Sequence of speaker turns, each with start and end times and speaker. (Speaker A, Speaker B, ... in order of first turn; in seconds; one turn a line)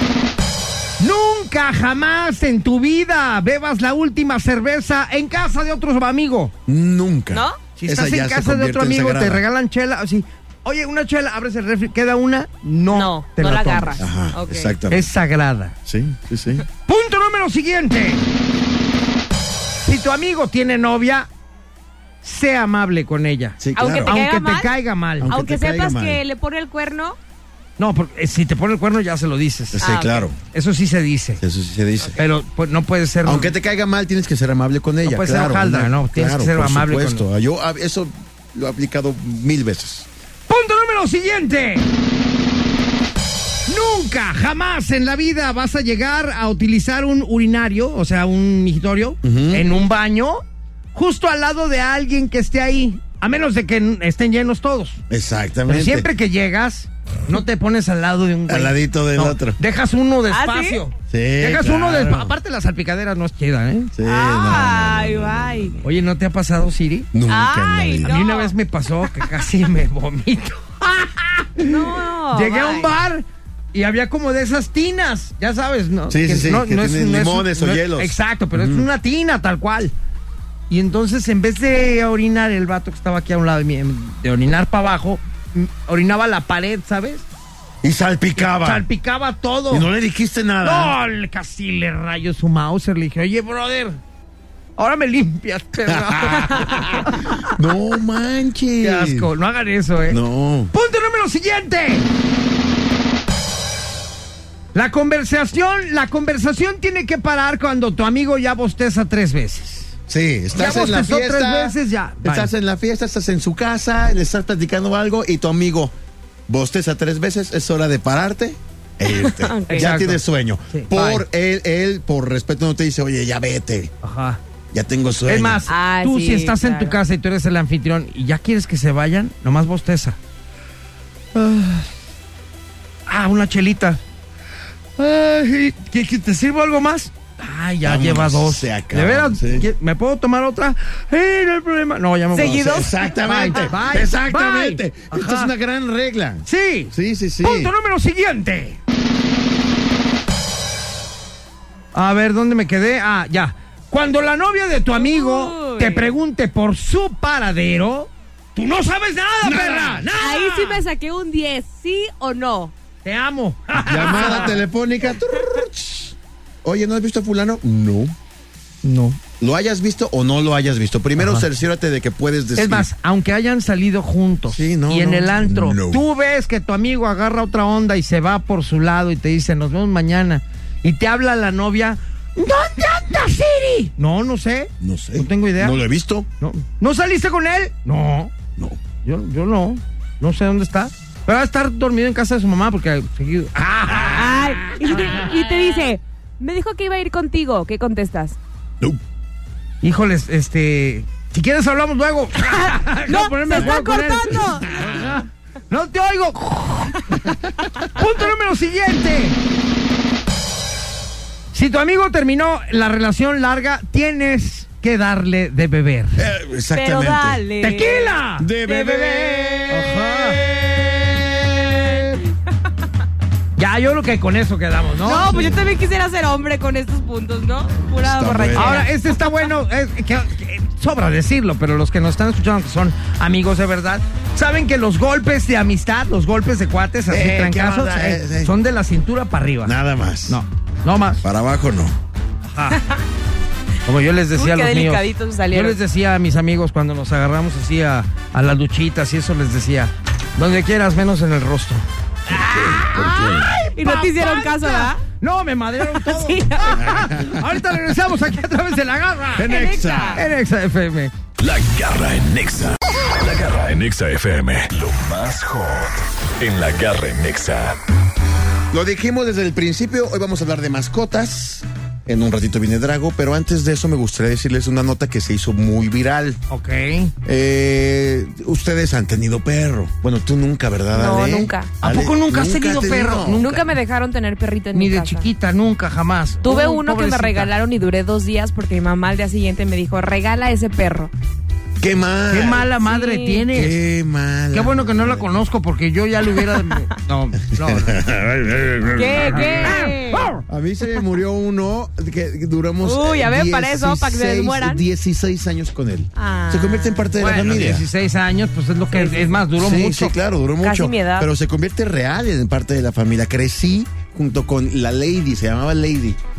Speaker A: 1.0-6.5
Speaker B: 6.7-9.4
Speaker C: 7.3-7.6
Speaker A: 7.8-14.0
Speaker C: 12.9-14.7
Speaker B: 14.0-15.1
Speaker A: 14.9-15.7
Speaker B: 15.9-16.6
Speaker A: 16.9-18.3
Speaker A: 19.7-21.3
Speaker A: 22.2-25.3
Speaker B: 23.6-24.2
Speaker C: 23.8-24.7
Speaker B: 25.2-26.2
Speaker C: 25.3-27.2
Speaker A: 27.8-29.9
Speaker B: 29.7-30.4
Speaker C: 29.8-30.3
Speaker A: 30.5-31.4
Speaker B: 31.4-32.2
Speaker A: 32.1-33.5
Speaker B: 33.2-40.1
Speaker A: 35.0-37.2
Speaker A: 40.5-41.9
Speaker A: 43.7-55.0
Speaker B: 49.2-49.7
Speaker B: 55.1-56.1
Speaker A: 55.7-63.9
Speaker B: 58.5-59.6
Speaker C: 60.3-60.8
Speaker B: 61.1-62.3
Speaker B: 63.9-65.8
Speaker C: 64.0-65.8
Speaker A: 65.8-67.1
Speaker B: 67.1-68.2
Speaker C: 67.3-68.5
Speaker A: 68.0-79.9
Speaker C: 71.6-72.9
Speaker B: 76.1-78.9
Speaker A: 80.7-87.2
Speaker B: 87.8-88.8
Speaker A: 88.4-89.9
Speaker B: 89.7-91.0
Speaker A: 90.6-94.0
Speaker A: 94.8-97.5
Speaker B: 95.9-99.3
Speaker A: 98.8-100.2
Speaker B: 100.1-100.7
Speaker A: 100.7-102.1
Speaker A: 104.7-109.9
Speaker B: 110.1-115.9
Speaker A: 110.5-112.5
Speaker B: 116.5-123.9
Speaker C: 119.2-119.9
Speaker A: 119.7-121.2
Speaker A: 124.0-124.4
Speaker B: 124.7-125.6
Speaker A: 125.3-130.2
Speaker C: 125.7-127.0
Speaker A: 131.3-131.9
Speaker A: 133.1-134.0
Speaker A: 135.0-145.5
Speaker B: 137.8-139.7
Speaker C: 142.3-143.7
Speaker B: 142.5-147.7
Speaker A: 146.4-148.8
Speaker A: 151.9-160.8
Speaker C: 154.9-156.1
Speaker B: 159.4-160.1
Speaker C: 160.1-162.7
Speaker A: 163.0-164.6
Speaker B: 163.8-168.1
Speaker C: 164.1-164.4
Speaker A: 168.8-169.2
Speaker B: 169.4-172.9
Speaker A: 171.2-171.4
Speaker A: 172.6-185.8
Speaker B: 174.5-176.0
Speaker B: 184.8-186.3
Speaker A: 186.4-188.3
Speaker A: 189.0-195.3
Speaker C: 194.0-198.4
Speaker A: 199.8-207.3
Speaker C: 203.1-204.7
Speaker B: 204.4-205.2
Speaker A: 207.8-209.4
Speaker A: 211.5-216.2
Speaker B: 216.2-217.4
Speaker C: 216.7-219.7
Speaker A: 217.6-218.5
Speaker B: 218.4-222.2
Speaker A: 219.7-220.4
Speaker A: 223.6-225.5
Speaker C: 225.0-228.9
Speaker B: 225.2-225.7
Speaker B: 228.0-228.9
Speaker A: 228.5-239.7
Speaker B: 237.1-238.6
Speaker B: 239.6-240.4
Speaker A: 240.3-241.2
Speaker B: 241.2-242.0
Speaker A: 242.5-242.8
Speaker C: 242.8-243.0
Speaker A: 243.8-259.5
Speaker C: 244.3-245.8
Speaker B: 252.3-253.5
Speaker C: 252.6-253.0
Speaker C: 253.8-255.0
Speaker C: 255.9-257.1
Speaker B: 256.8-257.4
Speaker B: 259.3-260.2
Speaker C: 259.4-260.2
Speaker A: 260.1-261.1
Speaker D: 261.4-267.8
Speaker B: 268.7-276.4
Speaker A: 276.5-277.1
Speaker B: 277.2-283.5
Speaker C: 280.9-281.7
Speaker A: 281.8-283.7
Speaker C: 283.4-285.3
Speaker A: 284.7-287.5
Speaker C: 286.4-291.1
Speaker B: 291.8-292.7
Speaker A: 292.3-293.8
Speaker C: 292.8-293.4
Speaker B: 293.5-295.3
Speaker A: 294.5-298.0
Speaker B: 297.5-299.9
Speaker C: 298.9-300.3
Speaker A: 299.3-300.4
Speaker B: 300.4-307.9
Speaker C: 302.8-304.8
Speaker C: 306.1-307.1
Speaker A: 307.2-310.1
Speaker C: 309.0-309.3
Speaker B: 309.6-316.2
Speaker C: 310.6-311.3